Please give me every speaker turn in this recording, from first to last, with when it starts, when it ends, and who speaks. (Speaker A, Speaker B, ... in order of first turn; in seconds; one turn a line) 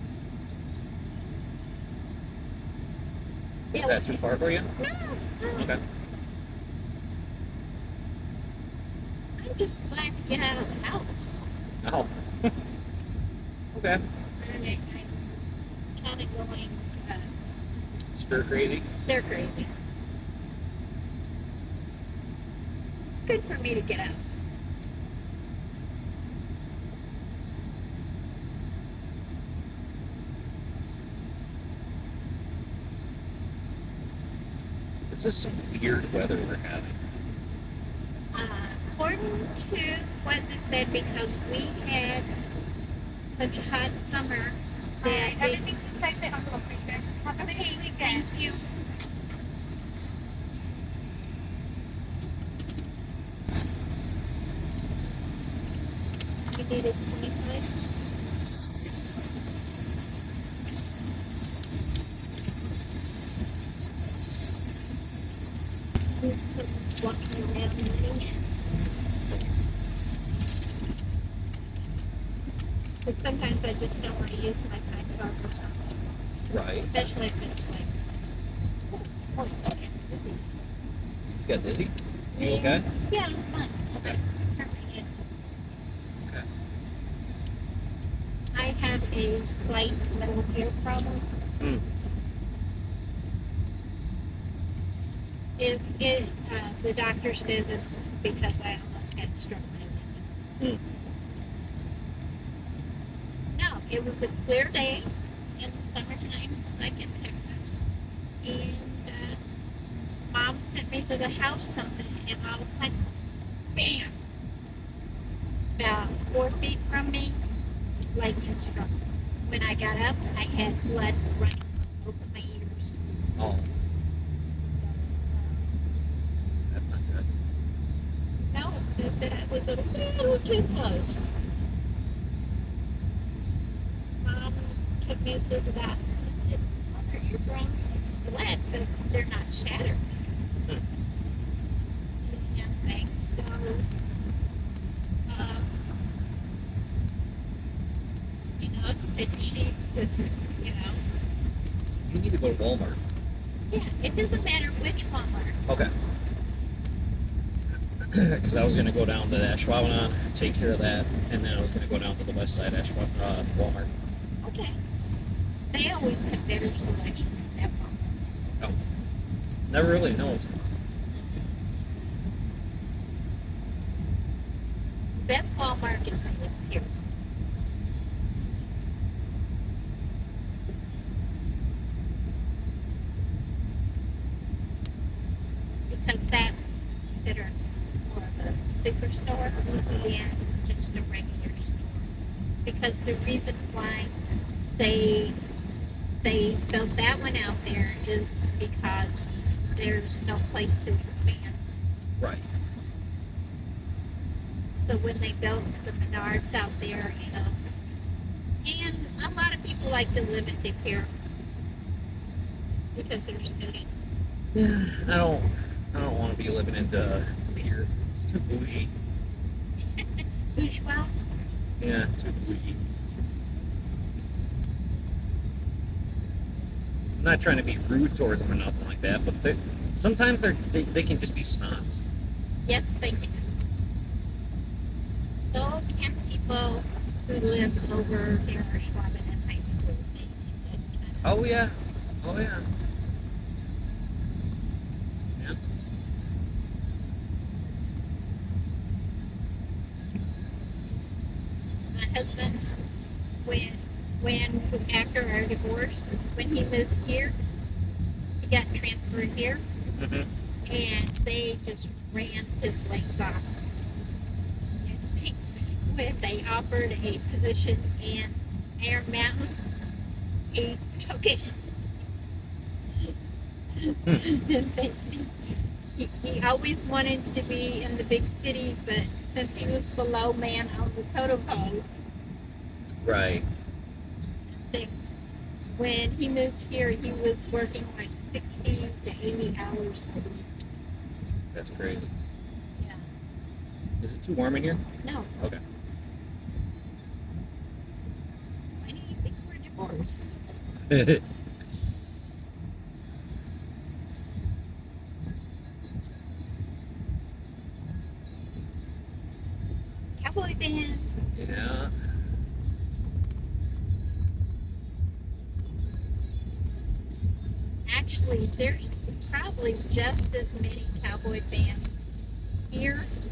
Speaker A: 3.7-4.1
Speaker B: 3.7-4.7
Speaker A: 4.8-5.7
Speaker A: 9.4-11.4
Speaker B: 11.8-12.5
Speaker B: 13.7-14.0
Speaker A: 14.4-15.2
Speaker A: 15.9-17.3
Speaker B: 18.1-18.9
Speaker A: 18.9-19.7
Speaker A: 23.1-24.2
Speaker B: 35.1-37.0
Speaker A: 38.3-42.2
Speaker A: 43.3-46.1
Speaker C: 45.7-47.0
Speaker A: 47.0-48.6
Speaker C: 47.6-48.4
Speaker A: 56.4-57.6
Speaker A: 66.1-68.3
Speaker A: 73.0-78.0
Speaker B: 76.5-77.1
Speaker A: 78.9-80.5
Speaker B: 81.3-82.9
Speaker A: 82.3-85.3
Speaker A: 88.5-91.3
Speaker A: 95.6-100.4
Speaker A: 103.5-107.8
Speaker A: 108.4-109.4
Speaker A: 110.3-113.1
Speaker A: 113.7-114.2
Speaker A: 115.8-117.4
Speaker A: 118.1-123.0
Speaker B: 123.4-123.7
Speaker A: 124.7-125.7
Speaker B: 126.7-127.3
Speaker A: 128.5-131.3
Speaker A: 134.2-140.0
Speaker A: 142.2-143.8
Speaker A: 145.3-145.8
Speaker A: 148.6-151.0
Speaker B: 152.0-153.0
Speaker A: 153.7-155.6
Speaker B: 158.1-163.9
Speaker A: 164.4-164.8
Speaker A: 165.7-168.1
Speaker B: 169.7-170.7
Speaker A: 175.2-176.9
Speaker A: 185.9-192.1
Speaker B: 189.7-190.1
Speaker A: 192.6-194.1
Speaker A: 194.8-195.4
Speaker A: 196.2-201.6
Speaker A: 204.8-207.6
Speaker A: 208.6-211.1
Speaker A: 212.9-213.9
Speaker B: 214.5-218.9
Speaker A: 220.5-221.1
Speaker B: 221.8-222.9
Speaker B: 227.2-232.0
Speaker A: 232.6-233.5
Speaker A: 235.4-241.4
Speaker B: 241.2-242.7
Speaker A: 251.9-252.7
Speaker A: 253.4-257.4
Speaker A: 258.4-259.6
Speaker B: 260.0-260.3
Speaker A: 260.7-263.6
Speaker A: 264.8-269.6
Speaker A: 270.5-271.5
Speaker A: 273.8-275.4
Speaker A: 275.9-281.8
Speaker B: 283.0-283.4
Speaker A: 284.5-285.1
Speaker A: 285.7-290.6
Speaker B: 291.5-292.0
Speaker A: 292.8-293.0
Speaker B: 294.0-294.8
Speaker A: 295.0-295.3
Speaker A: 298.8-300.4
Speaker B: 300.9-301.2
Speaker A: 310.2-311.1
Speaker B: 311.4-311.9
Speaker A: 317.9-322.1
Speaker A: 322.7-323.1